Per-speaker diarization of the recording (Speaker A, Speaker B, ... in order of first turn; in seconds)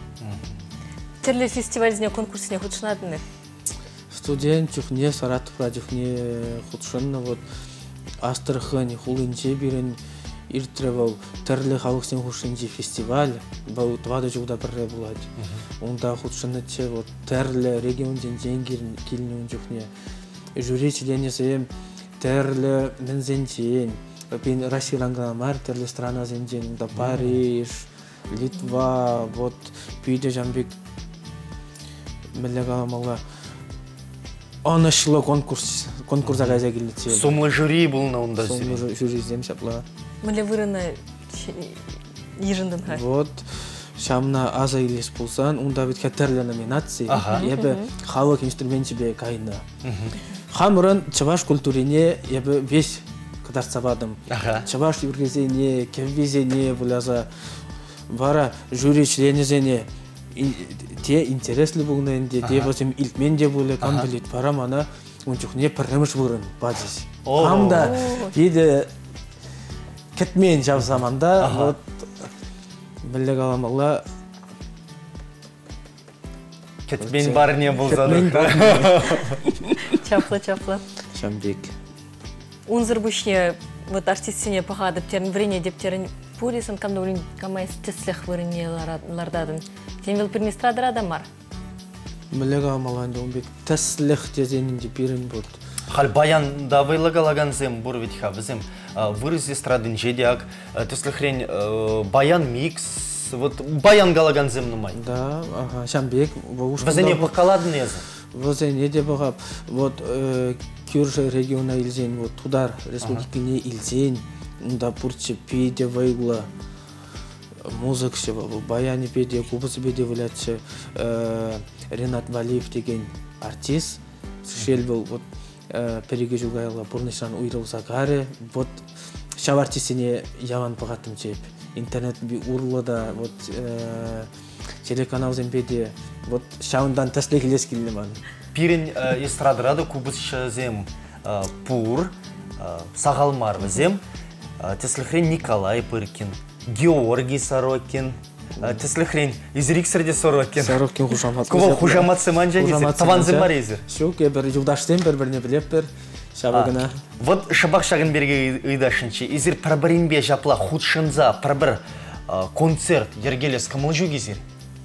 Speaker A: 0.2-0.6, 15.4-15.6, 27.0-27.4, 36.2-38.8, 47.1-47.5, 49.8-50.1, 54.3-54.7, 62.4-62.7, 63.8-64.1, 67.2-68.0, 71.4-71.7, 76.8-79.4, 95.9-105.0, 106.8-108.0, 138.5-144.0, 144.6-150.8, 151.5-153.8, 156.5-164.4
Speaker B: 1.2-3.2, 40.2-43.0, 47.3-47.9, 67.8-68.3, 79.8-80.8, 82.7-91.3
Speaker C: 4.1-7.4, 8.2-15.3, 15.8-19.9, 20.6-30.8, 32.3-33.2, 34.6-37.4, 38.4-39.9, 42.9-49.6, 50.5-57.3, 58.1-68.9, 70.1-72.1, 73.0-74.0, 77.0-79.2, 81.1-81.7, 92.3-95.6, 104.9-107.4, 108.3-116.5, 117.6-128.8, 129.4-134.3, 134.8-138.2, 150.6-157.0